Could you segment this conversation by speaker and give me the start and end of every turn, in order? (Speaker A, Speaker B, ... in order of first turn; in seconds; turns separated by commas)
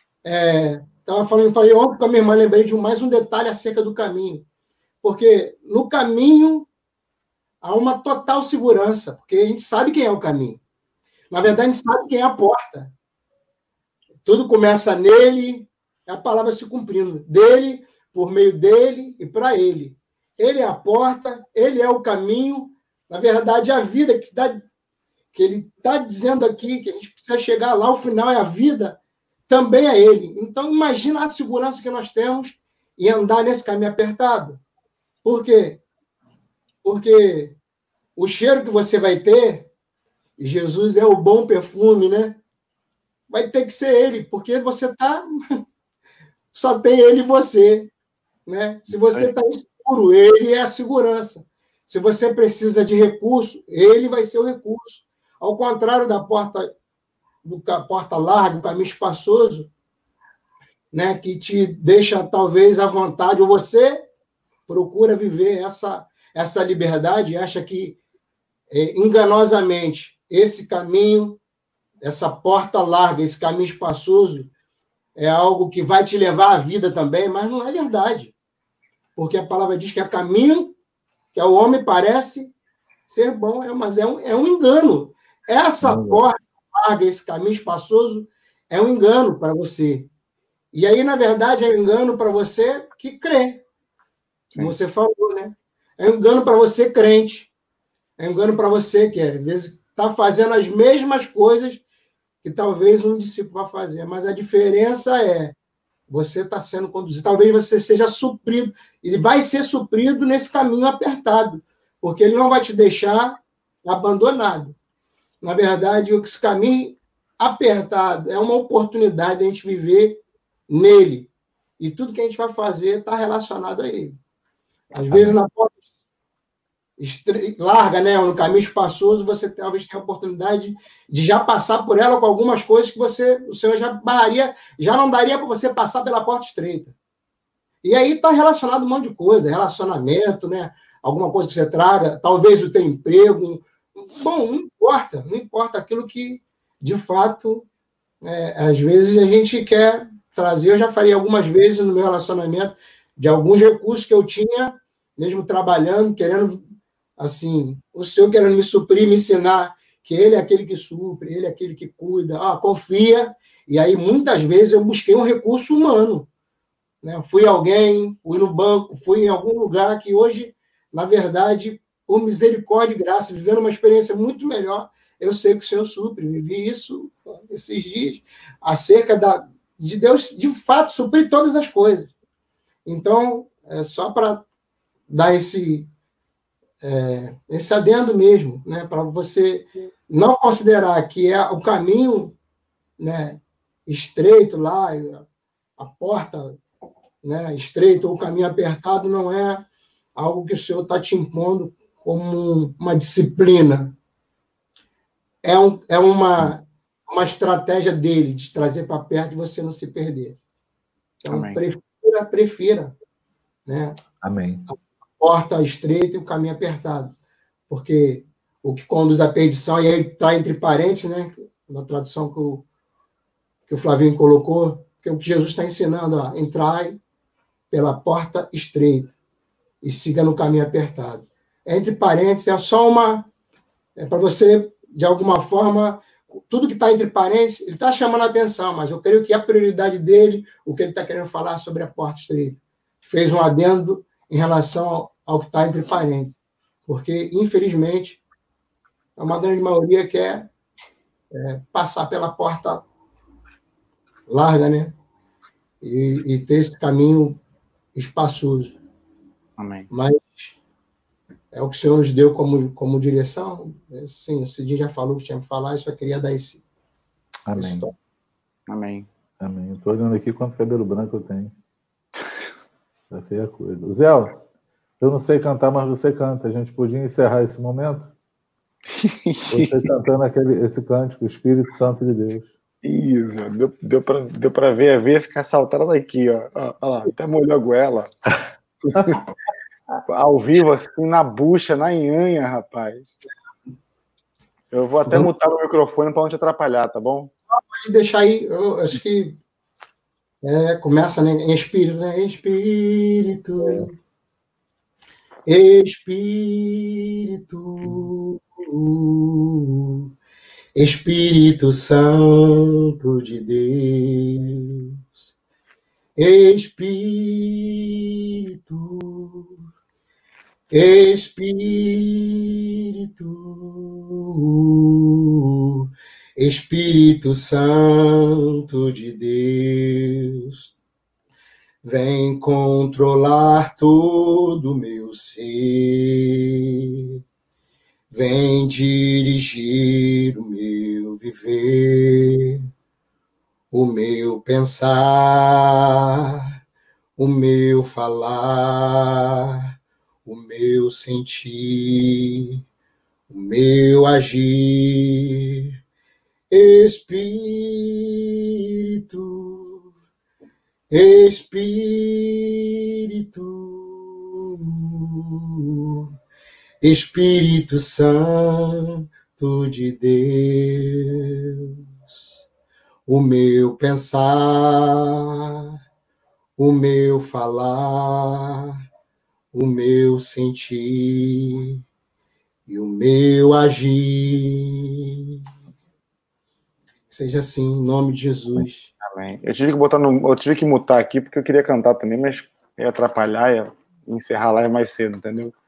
Speaker A: 0.2-4.5, Speaker A: 5.0-6.7, Speaker A: 7.6-10.6, Speaker A: 11.3-12.9, Speaker A: 14.2-24.6, Speaker A: 25.3-34.6, Speaker A: 35.2-35.8, Speaker A: 36.8-37.6, Speaker A: 38.2-39.7, Speaker A: 40.4-42.4, Speaker A: 43.3-45.2, Speaker A: 46.5-47.9, Speaker A: 48.5-56.7, Speaker B: 48.9-49.3, Speaker A: 57.4-59.7, Speaker A: 60.9-64.1, Speaker A: 64.7-68.0, Speaker A: 68.7-71.4, Speaker A: 72.0-74.5, Speaker A: 75.2-78.3, Speaker A: 79.2-80.8, Speaker A: 81.3-82.5, Speaker A: 83.1-90.1, Speaker C: 85.8-86.2, Speaker A: 90.7-93.6, Speaker A: 94.6-97.5, Speaker A: 98.2-101.8, Speaker A: 102.4-105.6, Speaker A: 106.1-114.8, Speaker A: 115.4-124.2, Speaker A: 124.9-125.8, Speaker C: 125.1-125.4, Speaker A: 127.0-136.9, Speaker A: 137.8-147.7, Speaker A: 148.2-156.7, Speaker A: 157.2-166.3, Speaker A: 167.0-182.1, Speaker A: 182.9-184.4, Speaker A: 185.1-185.9, Speaker A: 186.8-192.4, Speaker A: 193.0-195.3, Speaker A: 195.8-196.6, Speaker A: 197.2-203.9, Speaker A: 205.4-210.4, Speaker A: 211.2-212.9, Speaker B: 211.3-211.6, Speaker A: 213.7-214.0, Speaker C: 214.2-214.7, Speaker A: 214.7-217.1, Speaker A: 217.7-222.7, Speaker A: 223.7-227.0, Speaker A: 227.7-229.1, Speaker A: 229.8-233.3, Speaker A: 234.0-248.2, Speaker A: 249.2-250.5, Speaker A: 251.3-252.8, Speaker A: 254.3-255.0, Speaker A: 255.8-257.4, Speaker A: 257.9-258.8, Speaker B: 259.6-259.9, Speaker A: 259.9-260.6, Speaker A: 261.5-266.6, Speaker C: 267.5-267.9, Speaker A: 267.6-267.9, Speaker B: 268.7-269.1, Speaker C: 269.4-271.5, Speaker C: 273.1-274.4, Speaker C: 275.0-278.1, Speaker B: 278.9-279.8, Speaker C: 279.5-282.5, Speaker B: 282.8-288.1, Speaker B: 288.9-289.2, Speaker B: 290.1-293.1, Speaker B: 294.7-297.3, Speaker A: 297.5-299.4, Speaker A: 300.4-303.9, Speaker C: 303.6-303.9, Speaker A: 305.5-310.1, Speaker A: 310.8-315.3, Speaker A: 316.2-319.6, Speaker A: 320.7-325.8, Speaker A: 326.4-330.7, Speaker A: 331.8-337.1, Speaker A: 338.1-342.6, Speaker A: 343.7-346.4, Speaker A: 347.2-349.7, Speaker A: 350.3-352.6, Speaker A: 353.3-355.7, Speaker A: 356.5-359.9, Speaker A: 360.9-366.1, Speaker A: 366.8-372.4, Speaker A: 373.1-375.7, Speaker A: 376.6-378.8, Speaker A: 379.5-381.8, Speaker A: 382.7-385.3, Speaker A: 387.1-388.9, Speaker B: 389.0-395.6